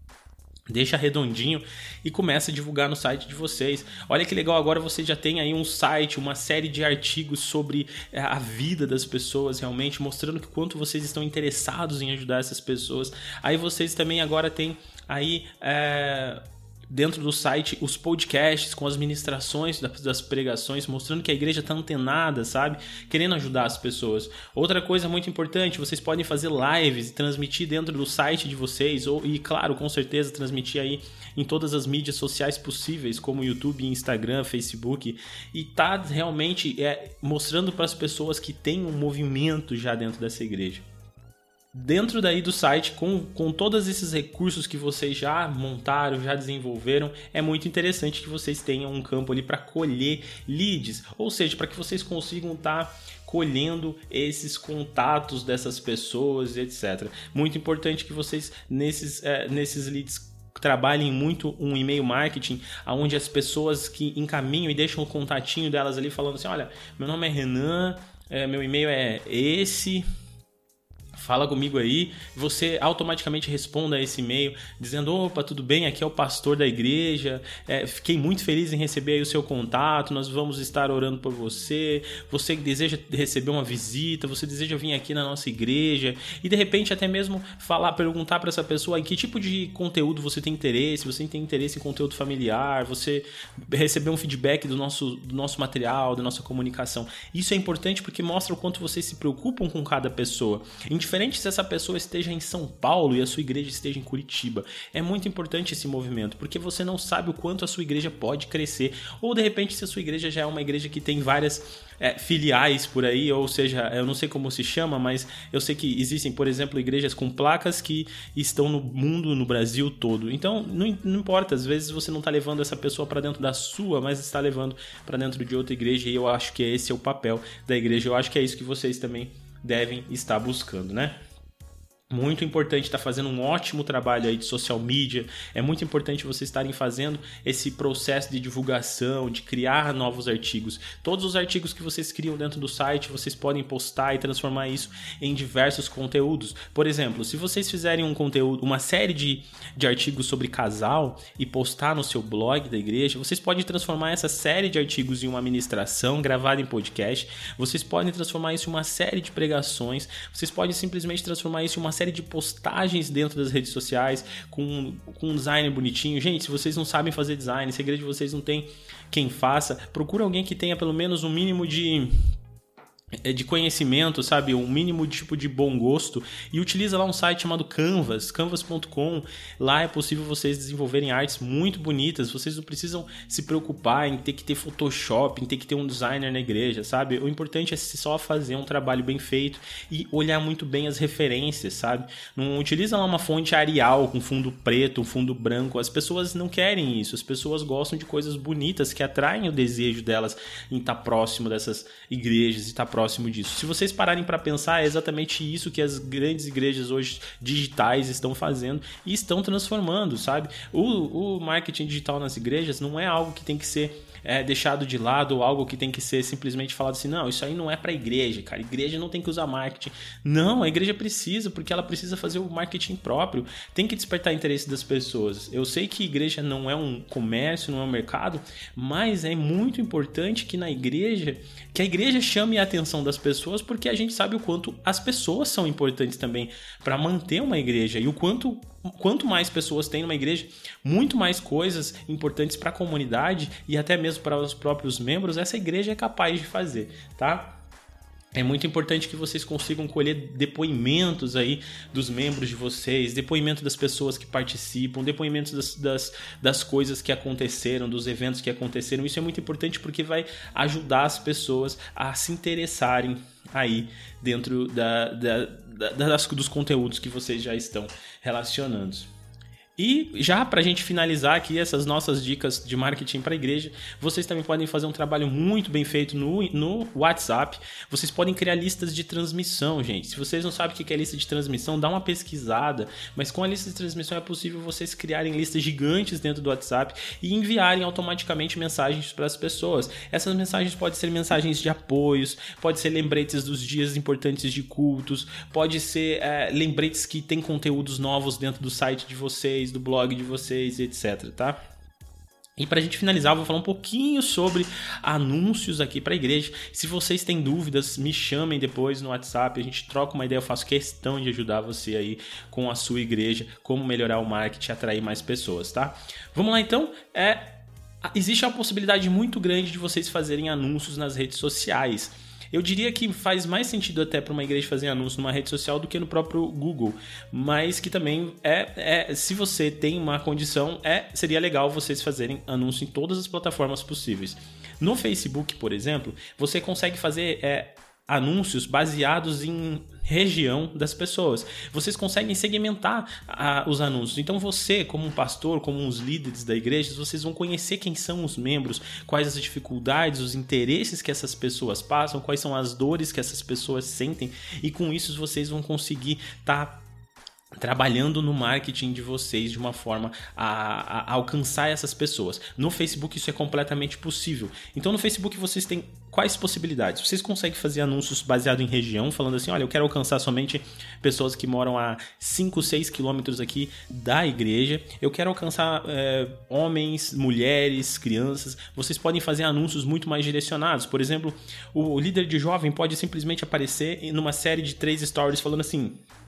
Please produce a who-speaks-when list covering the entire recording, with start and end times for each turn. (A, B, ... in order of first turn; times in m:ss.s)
0:00.7-0:40.9 A
0:41.7-1:10.0 A
1:11.2-2:11.2 A
2:12.1-2:52.1 A
2:53.2-4:07.6 A
4:08.3-4:29.1 A
4:29.8-5:01.6 A
5:02.6-5:17.6 A
5:18.1-5:56.8 A
5:57.6-6:26.0 A